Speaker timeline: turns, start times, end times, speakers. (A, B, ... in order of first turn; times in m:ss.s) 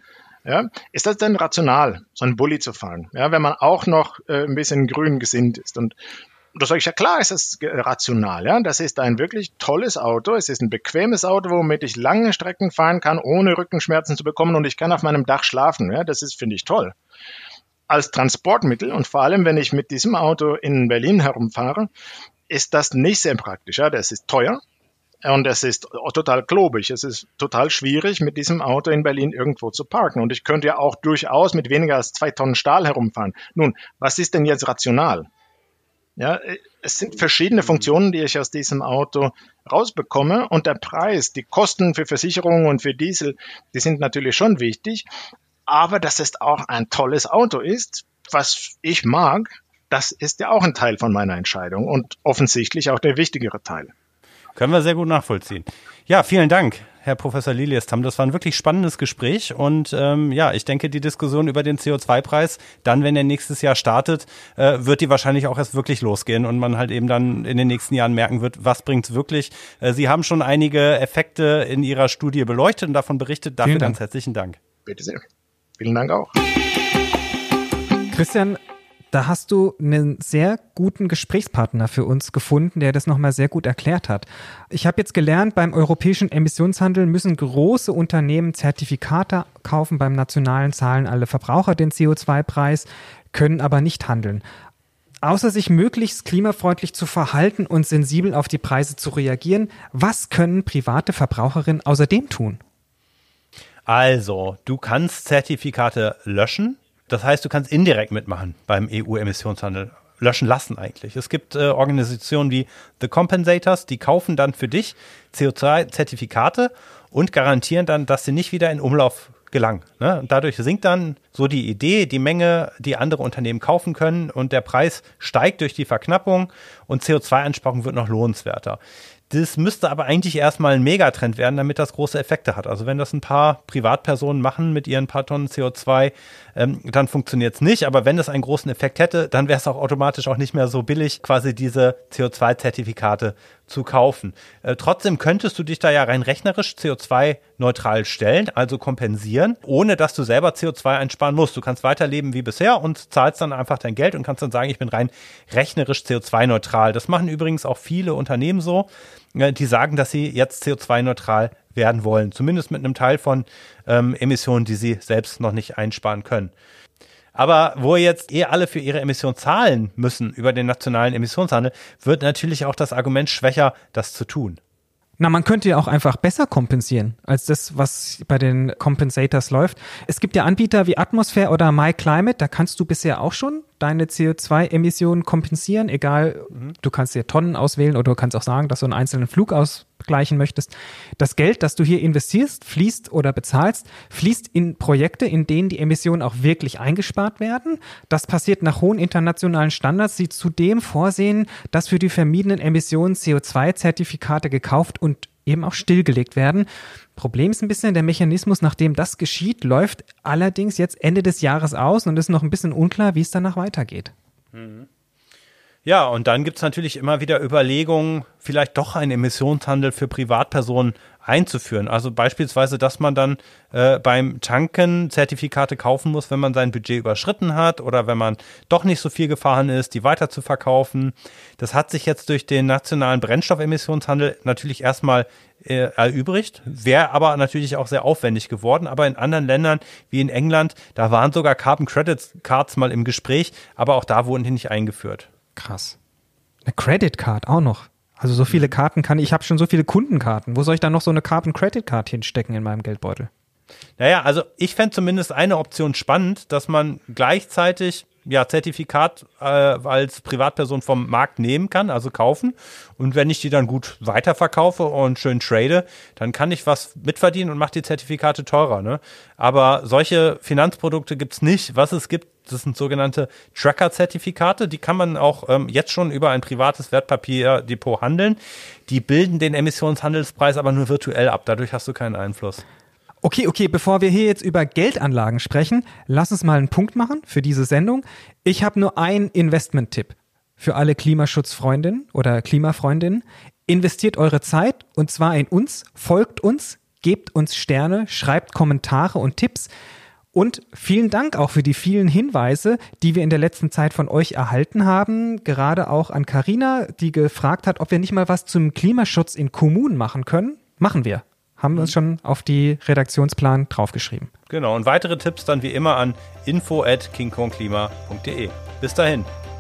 0:00.4-0:05.9 A
0:06.5-0:16.9 A
0:17.9-0:21.9 A
0:22.5-0:24.6 A
0:25.2-0:35.3 A
0:36.2-0:45.0 A
0:45.7-0:53.9 A
0:54.5-1:14.6 B
1:13.6-1:14.0 C
1:14.8-1:15.2 A
1:15.8-1:16.4 A
1:18.1-1:18.6 C
1:19.1-1:34.4 C
1:35.2-1:42.6 C
1:43.8-2:46.5 B
2:47.3-2:54.6 B
2:55.2-3:34.1 C
3:34.5-3:34.9 B
3:35.8-4:05.3 B
4:05.6-4:06.0 C
4:06.6-4:13.3 C
4:14.0-4:42.6 B
4:43.2-4:59.7 C
5:00.3-5:14.3 C
5:14.5-5:19.3 B